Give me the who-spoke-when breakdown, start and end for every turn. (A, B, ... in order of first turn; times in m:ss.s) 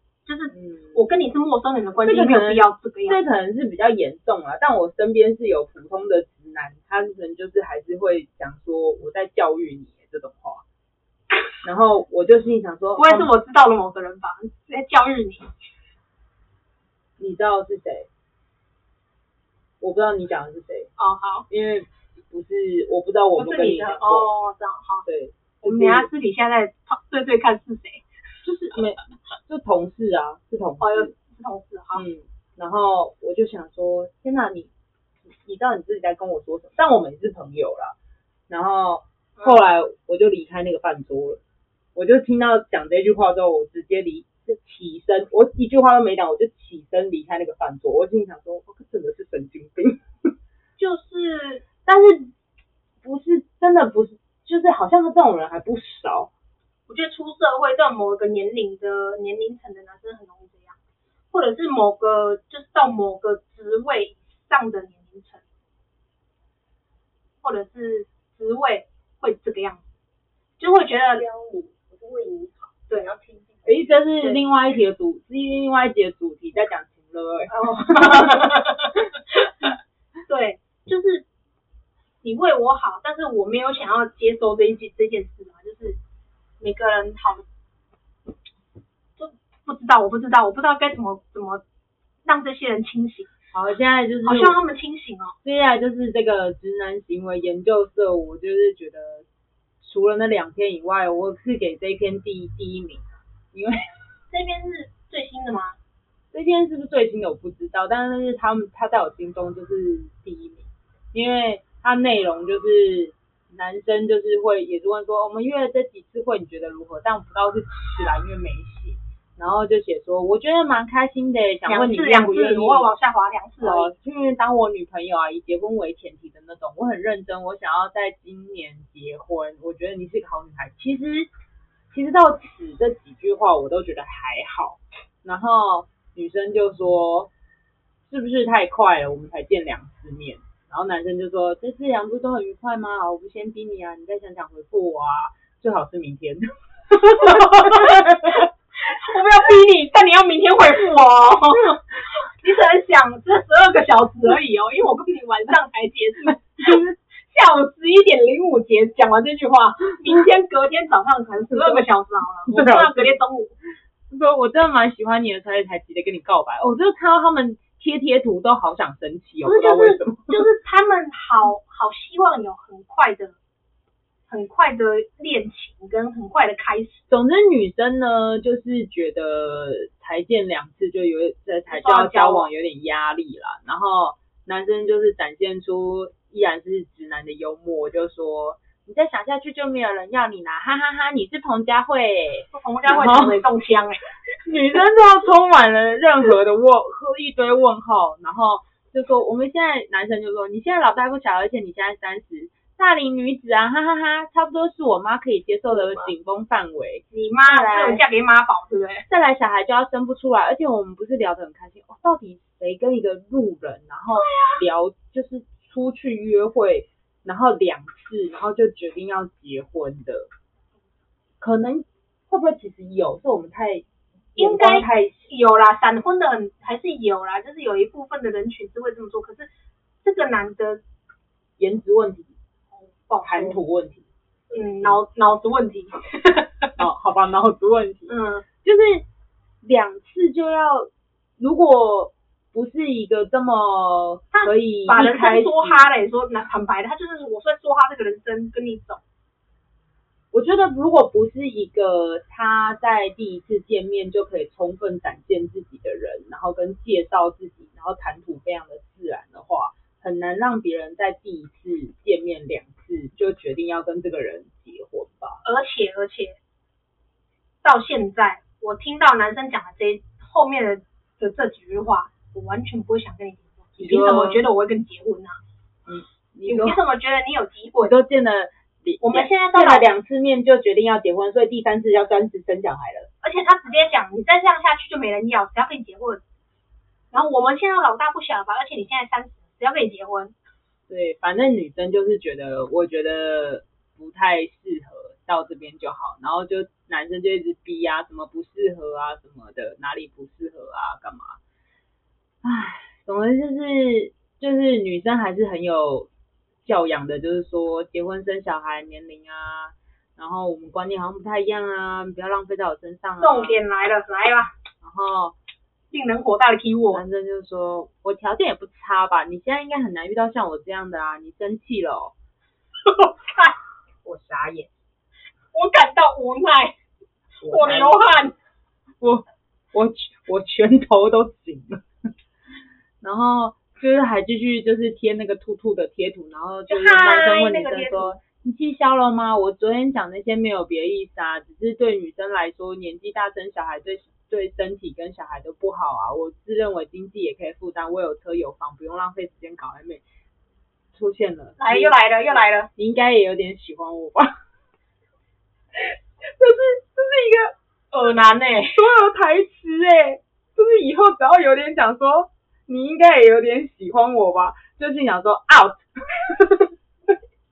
0:00.3-0:03.2 A
0:00.6-0:00.9 B
0:02.0-0:10.6 B
0:11.6-0:13.3 B
0:13.0-0:15.5 A
0:17.2-0:18.1 B
0:19.8-0:20.9 B
0:21.0-0:21.5 A
0:21.5-0:24.3 B
0:23.4-0:25.1 A
0:25.1-0:26.1 B
0:25.6-0:28.0 A
0:28.4-0:31.1 B
0:30.8-0:32.0 A
0:31.9-0:34.7 B
0:35.3-0:38.0 B
0:38.5-0:41.4 B
0:42.0-0:50.3 B
0:50.8-0:51.6 A
0:51.8-0:52.3 B
0:53.0-0:56.3 B
0:56.9-1:00.8 A
1:01.3-1:05.4 A
1:07.4-1:09.8 A
1:10.6-1:11.2 A
1:10.9-1:14.4 C
1:13.7-1:18.7 B
1:17.5-1:18.8 A
1:20.3-1:21.2 A
1:22.2-1:26.0 A
1:26.6-1:27.4 A
1:29.2-1:31.6 A
1:32.2-1:33.3 A
1:33.5-1:34.6 B
1:34.2-1:35.4 A
1:35.4-1:39.2 B
1:39.8-1:43.8 B
1:44.3-1:45.8 A
1:46.3-2:02.9 B
2:01.7-2:03.9 A
2:03.6-2:11.3 B
2:11.9-2:17.3 B
2:18.0-2:28.4 B
2:27.1-2:43.6 A
2:41.5-2:41.8 B
2:42.5-2:43.2 B
2:44.1-2:50.4 B
2:49.4-2:53.4 A
2:54.3-2:57.0 A
2:57.1-3:13.4 B
3:01.7-3:02.5 A
3:12.5-3:14.0 A
3:14.4-3:28.0 B
3:27.1-3:29.1 A
3:29.1-3:40.3 B
3:34.2-3:34.6 A
3:41.4-3:43.8 B
3:44.4-3:45.3 B
3:44.4-3:49.5 A
3:50.0-3:50.8 A
3:51.6-3:52.4 B
3:52.8-3:53.6 A
3:53.2-3:54.1 B
3:54.5-3:56.7 A
3:56.8-3:58.1 B
3:58.1-3:58.4 A
3:58.6-3:59.1 B
3:59.6-4:05.8 B
4:04.3-4:09.0 A
4:10.3-4:25.4 B
4:25.4-4:26.4 A
4:27.6-4:35.4 A
4:33.8-4:34.4 B
4:35.9-4:36.8 B
4:36.5-4:38.0 A
4:37.8-4:43.1 B
4:39.0-4:39.9 A
4:43.2-4:46.2 A
4:47.1-4:50.3 A
4:50.9-5:01.4 B
5:02.4-5:06.1 B
5:06.6-5:13.6 B
5:13.2-5:14.5 A
5:14.8-5:15.4 B
5:15.9-5:17.0 A
5:16.9-5:22.1 B
5:22.9-5:23.6 A
5:24.0-5:24.7 B
5:25.5-5:26.8 A
5:27.4-5:28.0 B
5:27.4-5:28.4 A
5:29.0-5:31.8 B
5:33.0-5:50.0 B
5:36.7-5:38.2 A
5:50.9-5:52.0 B
5:51.6-5:52.7 A
5:52.8-5:54.3 B
5:56.2-5:57.5 B
5:57.9-5:58.8 A
5:58.7-6:06.7 B